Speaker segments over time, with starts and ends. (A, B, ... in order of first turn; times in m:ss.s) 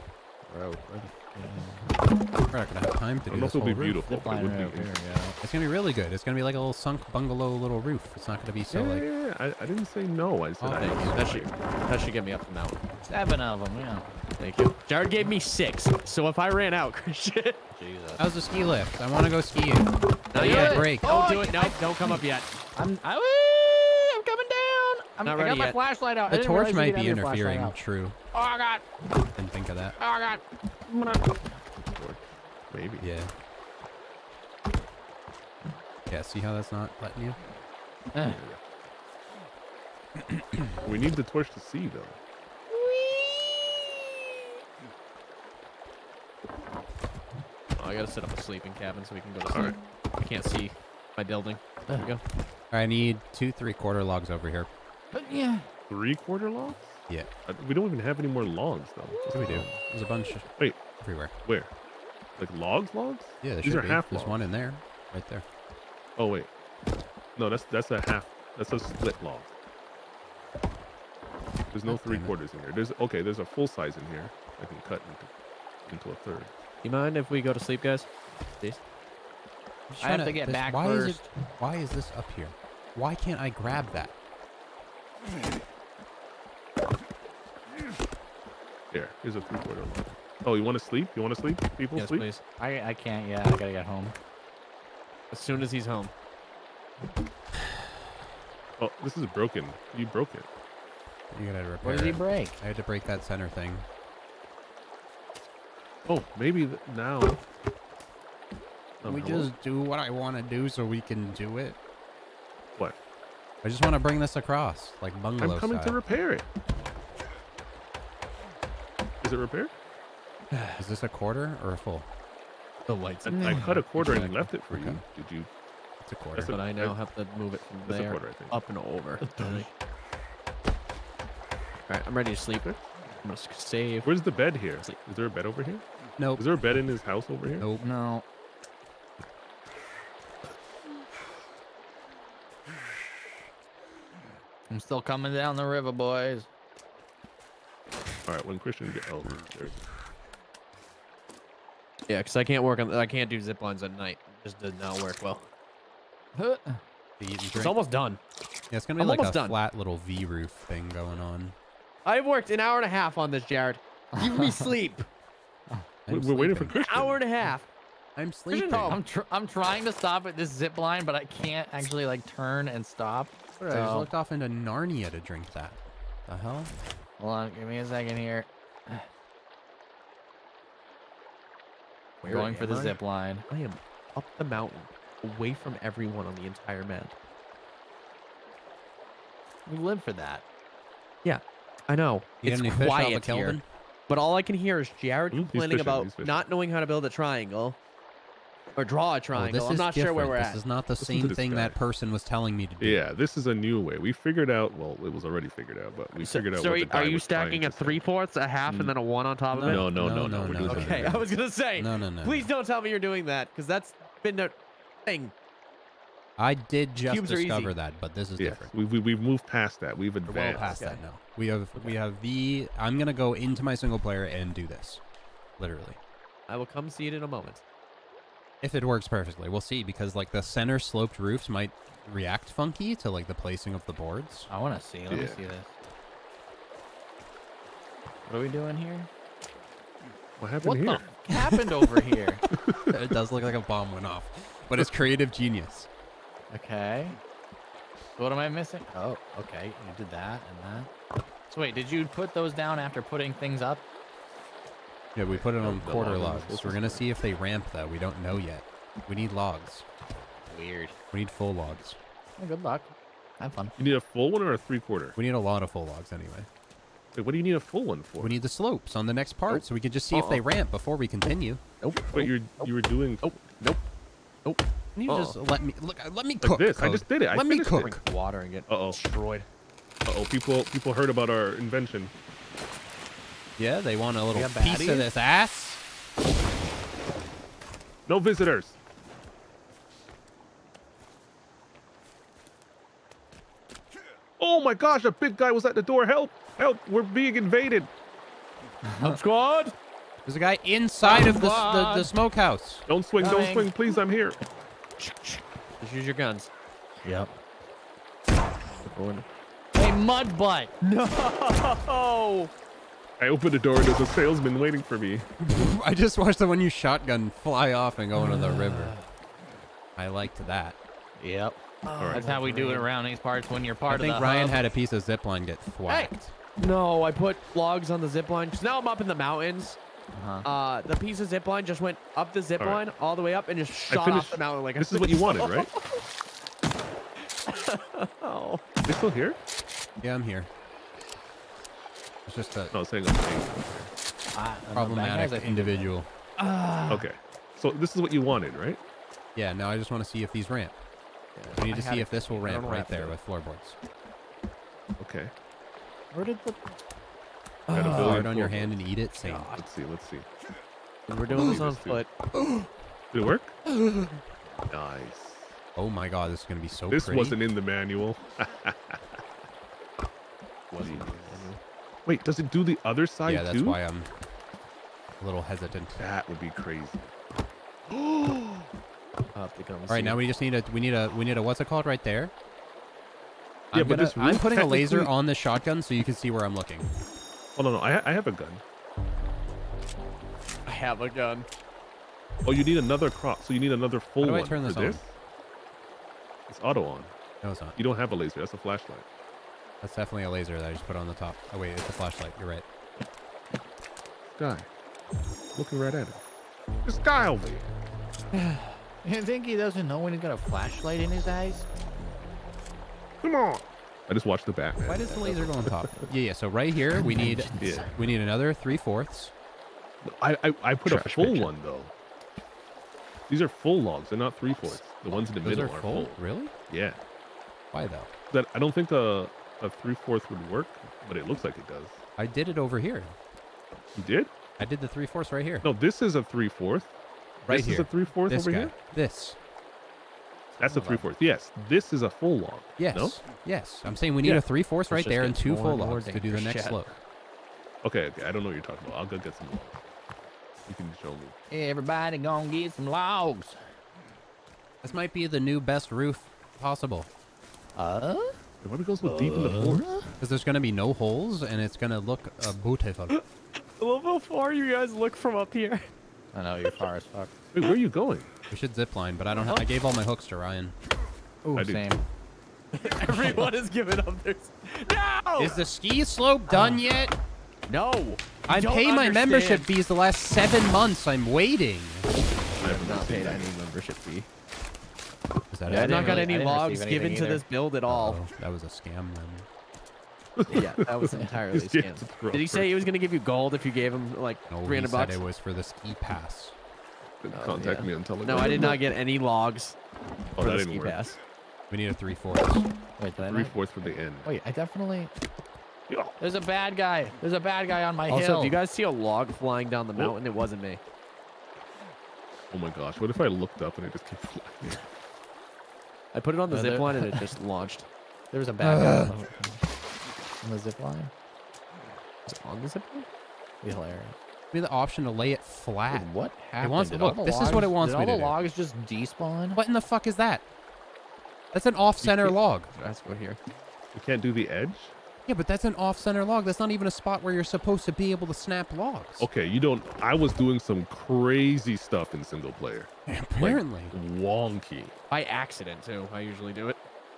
0:00.5-0:01.9 A
0:02.5-0:04.0 B
0:03.3-0:05.0 C
0:04.0-0:05.4 A
0:05.4-0:09.1 B
0:08.7-0:11.5 C
0:10.6-0:11.2 B
0:10.8-0:12.8 D
0:13.1-0:14.1 A
0:14.4-0:17.6 D
0:17.8-0:18.2 A
0:18.2-0:21.3 B
0:20.3-0:22.5 D
0:20.4-0:22.2 A
0:22.7-0:27.8 A
0:25.2-0:25.8 D
0:26.3-0:28.2 B
0:28.3-0:28.9 A
0:29.4-0:30.0 B
0:30.0-0:31.4 A
0:31.9-0:33.1 C
0:33.0-0:33.3 B
0:36.1-0:37.4 B
0:38.1-0:38.4 A
0:38.2-0:38.6 C
0:40.8-0:42.2 C
0:42.7-0:44.0 A
0:47.8-0:52.2 D
0:52.7-0:54.7 B
0:55.1-0:55.6 A
0:55.9-0:59.8 C
0:59.3-1:00.5 B
1:01.0-1:01.3 B
1:01.4-1:01.7 C
1:02.4-1:04.4 C
1:03.4-1:05.4 B
1:06.2-1:06.5 C
1:07.4-1:09.5 C
1:11.7-1:15.3 C
1:11.8-1:12.3 B
1:15.8-1:16.5 C
1:16.8-1:18.1 D
1:19.9-1:24.1 B
1:20.0-1:21.3 A
1:28.9-1:32.3 C
1:31.9-1:32.4 D
1:32.6-1:34.1 A
1:35.3-1:36.1 D
1:38.8-1:40.5 C
1:41.3-1:43.8 B
1:41.8-1:42.6 A
1:46.0-1:47.4 C
1:49.0-1:49.5 C
1:49.0-1:51.8 B
1:53.6-1:56.0 B
1:55.4-1:56.4 C
1:59.2-1:59.8 C
2:00.5-2:00.8 D
2:00.8-2:02.1 B
2:02.9-2:04.3 D
2:03.2-2:05.5 C
2:03.3-2:03.7 A
2:04.0-2:05.0 B
2:06.0-2:06.6 B
2:06.3-2:07.0 C
2:06.5-2:09.7 D
2:07.8-2:08.5 C
2:09.2-2:09.7 A
2:11.9-2:14.1 D
2:14.0-2:15.8 C
2:16.2-2:16.6 B
2:16.4-2:17.7 C
2:17.6-2:17.8 B
2:17.8-2:18.2 A
2:24.7-2:26.5 A
2:28.2-2:29.8 C
2:32.1-2:35.5 D
2:36.4-2:36.8 A
2:37.2-2:37.8 B
2:37.6-2:38.2 D
2:38.7-2:41.5 B
2:39.0-2:39.6 D
2:42.0-2:45.0 D
2:44.2-2:44.7 A
2:46.0-2:46.7 B
2:46.1-2:47.2 C
2:46.7-2:47.7 D
2:48.2-2:49.0 B
2:48.5-2:48.9 D
2:48.7-2:54.1 A
2:53.6-2:56.7 B
2:57.2-2:59.0 A
3:02.2-3:07.1 D
3:02.2-3:03.4 A
3:09.6-3:10.4 A
3:11.2-3:17.8 D
3:12.4-3:13.6 B
3:15.3-3:16.4 C
3:18.8-3:20.6 D
3:19.3-3:23.0 B
3:21.0-3:21.8 C
3:22.8-3:28.0 C
3:26.2-3:29.9 D
3:28.6-3:28.9 C
3:29.5-3:31.2 B
3:29.6-3:31.3 C
3:30.6-3:34.5 D
3:31.8-3:32.5 B
3:35.0-3:35.3 D
3:36.4-3:38.7 B
3:37.0-3:37.7 D
3:38.4-3:40.9 C
3:40.2-3:45.0 B
3:40.5-3:41.0 D
3:45.6-3:46.0 B
3:46.5-3:47.6 D
3:48.6-3:54.5 B
3:54.5-3:55.7 A
3:55.1-3:55.4 C
3:58.3-3:59.1 A
4:00.4-4:01.1 C
4:00.6-4:02.4 A
4:02.5-4:03.0 C
4:02.9-4:05.9 B
4:06.5-4:07.2 A
4:08.2-4:10.9 A
4:11.5-4:13.8 A
4:15.1-4:19.8 B
4:15.3-4:17.1 C
4:20.5-4:21.0 A
4:21.1-4:22.0 B
4:22.4-4:23.7 A
4:23.8-4:25.1 C
4:25.2-4:26.5 B
4:27.1-4:28.3 C
4:28.2-4:31.6 B
4:29.5-4:30.4 D
4:31.8-4:32.7 D
4:32.1-4:33.2 C
4:33.2-4:33.9 D
4:34.4-4:35.4 D
4:35.0-4:38.0 B
4:36.4-4:37.9 C
4:37.8-4:39.5 D
4:38.7-4:39.0 C
4:40.0-4:42.1 C
4:43.6-4:45.8 B
4:44.3-4:45.1 A
4:48.1-4:48.8 C
4:54.4-4:57.9 C
4:58.9-4:59.2 A
4:59.0-4:59.8 D
5:00.2-5:02.8 B
5:01.0-5:02.1 A
5:02.9-5:04.4 C
5:03.2-5:03.7 A
5:05.0-5:06.5 D
5:07.0-5:07.3 A
5:08.9-5:09.2 D
5:09.7-5:10.7 A
5:10.8-5:12.5 D
5:13.2-5:15.3 C
5:15.4-5:18.9 B
5:18.2-5:19.0 D
5:20.0-5:20.8 B
5:21.2-5:24.6 A
5:21.8-5:22.9 D
5:22.0-5:22.3 C
5:23.9-5:26.3 B
5:25.9-5:29.8 D
5:30.1-5:30.5 A
5:30.4-5:36.0 D
5:33.9-5:35.7 C
5:37.4-5:38.8 D
5:38.8-5:39.4 C
5:40.0-5:40.5 B
5:42.3-5:42.8 B
5:42.7-5:43.9 C
5:44.3-5:45.9 A
5:44.7-5:46.1 B
5:46.4-5:46.9 D
5:46.4-5:47.0 A
5:46.9-5:48.8 C
5:49.3-5:50.8 B
5:51.4-5:53.2 D
5:51.5-5:53.8 B
5:55.0-5:55.3 C
5:56.1-5:56.7 A
5:57.7-5:58.2 D
5:57.7-5:58.8 C
5:57.9-5:59.5 B
5:59.2-5:59.6 D
5:59.5-6:00.3 C
6:01.1-6:02.1 D
6:01.3-6:02.0 C
6:03.1-6:03.6 C
6:04.7-6:05.5 C
6:05.8-6:07.4 B
6:06.9-6:09.0 C
6:10.7-6:11.6 D
6:10.8-6:11.5 C
6:12.0-6:13.8 C
6:13.2-6:14.1 B
6:15.2-6:16.0 B
6:16.0-6:17.1 C
6:17.9-6:18.7 C
6:19.3-6:20.2 D
6:19.9-6:22.3 B
6:23.7-6:26.9 B
6:23.7-6:25.1 C
6:27.6-6:28.6 C
6:30.6-6:31.5 D
6:32.4-6:35.1 C
6:34.2-6:35.0 B
6:36.5-6:37.1 C
6:37.4-6:37.8 B
6:37.8-6:39.0 C
6:39.8-6:42.6 B
6:44.3-6:44.7 C
6:45.5-6:46.2 C
6:46.8-6:47.7 C
6:48.4-6:48.7 D
6:49.0-6:51.7 A
6:53.2-6:56.1 C
6:54.8-6:59.3 B
6:57.1-6:57.8 A
6:57.6-6:58.0 C
7:00.0-7:01.9 C
7:00.8-7:01.5 D
7:03.3-7:06.2 C
7:05.1-7:06.5 B
7:06.7-7:07.0 C
7:07.7-7:08.1 B
7:08.3-7:12.0 C
7:12.2-7:13.1 B
7:13.9-7:14.3 C
7:14.6-7:15.7 B
7:15.6-7:16.9 C
7:17.4-7:19.4 B
7:17.5-7:18.7 C
7:20.6-7:21.0 A
7:20.6-7:23.2 C
7:22.8-7:27.0 B
7:24.2-7:26.8 D
7:27.8-7:29.8 C
7:30.6-7:31.3 C
7:31.5-7:33.6 A
7:34.8-7:37.1 B
7:37.8-7:38.4 A
7:38.6-7:39.9 C
7:39.0-7:40.1 A
7:40.2-7:43.2 B
7:43.8-7:45.9 D
7:46.3-7:47.4 A
7:47.5-7:48.3 C
7:48.5-7:50.7 B
7:51.4-7:52.0 A
7:51.5-7:52.0 C
7:52.7-7:55.6 D
7:55.4-7:57.1 B
7:56.5-7:56.8 A
7:57.7-7:59.7 D
7:58.5-8:02.1 B
8:02.6-8:03.6 C
8:02.6-8:04.3 D
8:05.5-8:06.3 B
8:05.7-8:08.2 D
8:05.7-8:07.4 A
8:07.9-8:09.5 B
8:10.4-8:12.8 C
8:10.5-8:15.2 D
8:14.5-8:16.6 B
8:17.2-8:18.8 C
8:17.3-8:19.8 D
8:20.4-8:21.0 C
8:20.4-8:21.2 D
8:21.7-8:22.7 B
8:23.0-8:25.1 A
8:23.2-8:24.3 C
8:25.9-8:26.1 C
8:26.2-8:28.6 A
8:28.1-8:30.8 D
8:32.5-8:34.8 C
8:36.1-8:37.9 D
8:36.5-8:37.2 A
8:38.3-8:39.6 A
8:38.6-8:39.1 B
8:40.4-8:41.1 A
8:42.3-8:43.1 D
8:43.6-8:44.2 A
8:44.5-8:46.1 B
8:45.9-8:49.6 A
8:46.6-8:48.4 B
8:49.5-8:50.4 B
8:51.5-8:52.7 B
8:52.0-8:53.4 D
8:53.9-8:54.9 C
8:55.2-8:59.2 B
8:59.2-9:04.9 C
9:03.1-9:04.0 B
9:05.1-9:06.8 D